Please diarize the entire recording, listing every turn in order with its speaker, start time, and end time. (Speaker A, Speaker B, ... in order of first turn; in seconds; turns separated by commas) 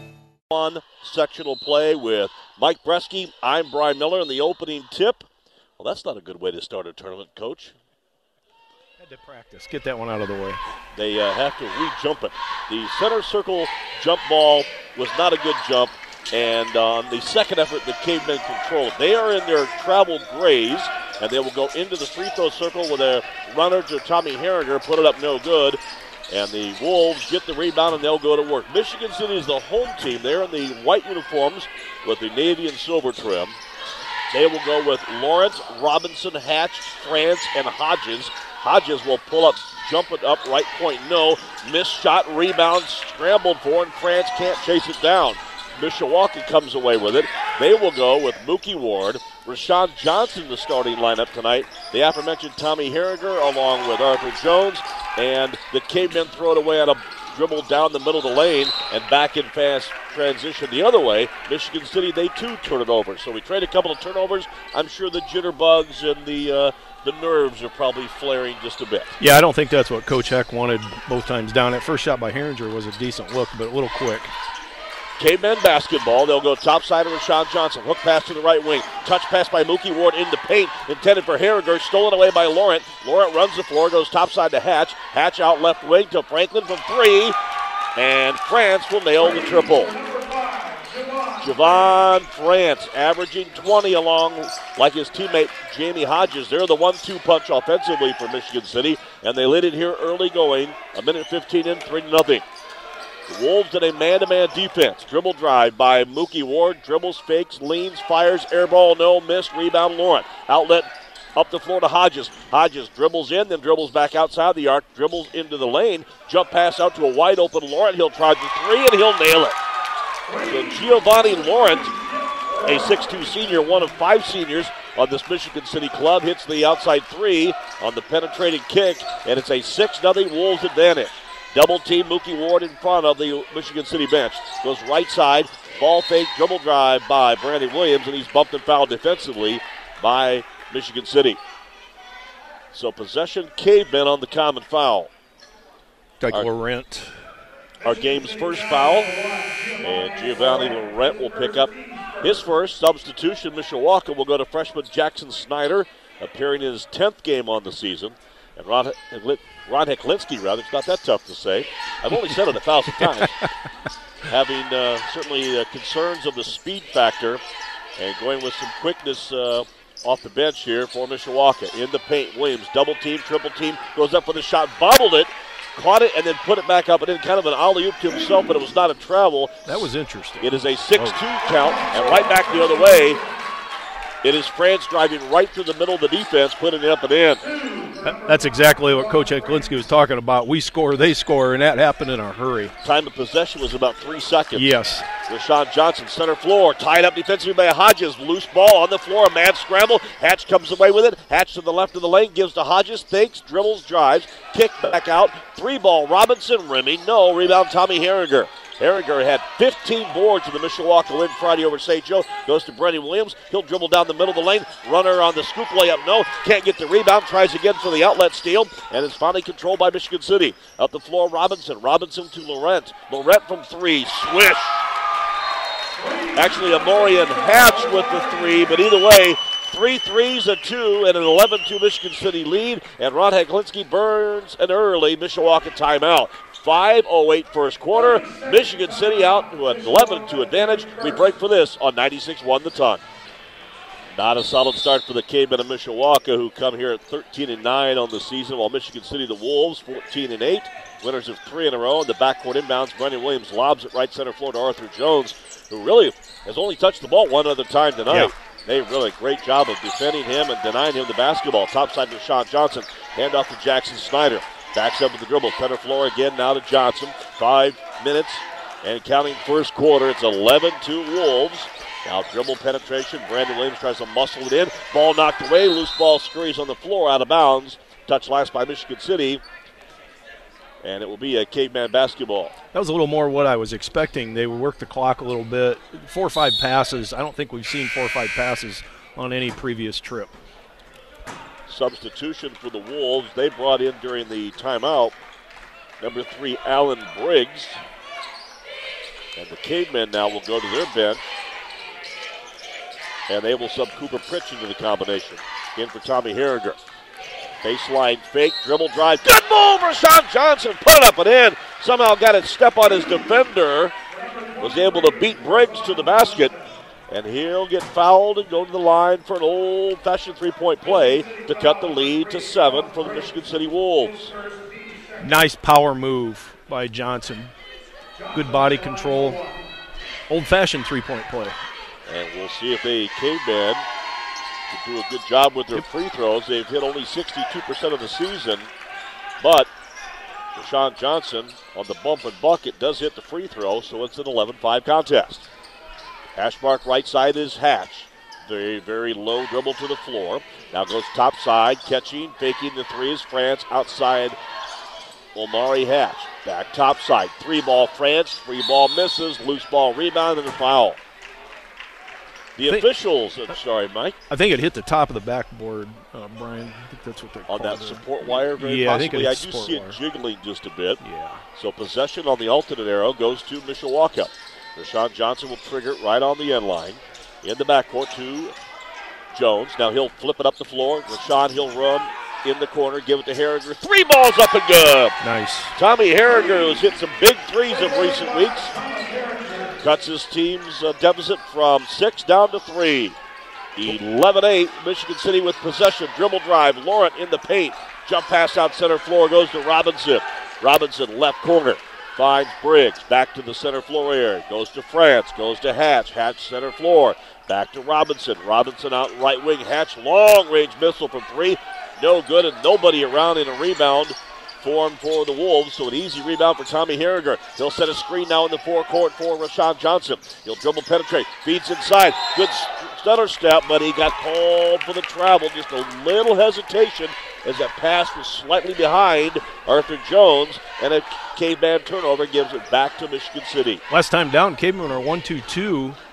Speaker A: 0.5-7.8, Speaker B: 9.0-10.6, Speaker A: 10.9-33.6, Speaker A: 34.3-69.2, Speaker B: 69.2-74.3, Speaker A: 75.2-87.4, Speaker A: 88.0-90.0, Speaker A: 91.4-102.5, Speaker A: 103.3-119.6, Speaker A: 120.4-122.0, Speaker A: 122.6-141.4, Speaker A: 142.7-145.1, Speaker B: 146.2-147.2, Speaker A: 147.8-149.2, Speaker A: 149.8-163.4, Speaker A: 164.3-167.4, Speaker A: 168.0-179.9, Speaker B: 179.7-181.2, Speaker A: 180.4-183.2, Speaker A: 184.2-187.5, Speaker B: 188.0-192.8, Speaker A: 192.8-194.7, Speaker B: 194.6-195.1, Speaker A: 195.2-224.9, Speaker A: 226.3-243.0, Speaker A: 244.1-279.4, Speaker A: 280.8-282.6, Speaker B: 282.7-290.4, Speaker A: 291.7-295.2, Speaker A: 296.0-297.8, Speaker A: 299.4-301.2, Speaker A: 303.3-306.8, Speaker A: 307.6-313.9, Speaker A: 314.6-316.6, Speaker A: 317.1-324.4, Speaker B: 325.2-327.5, Speaker B: 328.3-329.4, Speaker B: 330.3-331.6, Speaker A: 332.1-333.9, Speaker A: 334.7-338.7, Speaker A: 339.4-339.7, Speaker A: 340.6-345.5, Speaker A: 346.4-354.4, Speaker A: 355.3-361.0, Speaker A: 362.6-364.2, Speaker B: 364.3-370.0, Speaker A: 367.5-371.0, Speaker B: 371.0-371.4, Speaker A: 371.6-378.6, Speaker A: 379.3-385.2, Speaker B: 385.2-385.7, Speaker A: 385.8-388.8, Speaker A: 389.8-393.2, Speaker A: 393.8-433.8, Speaker B: 433.9-436.0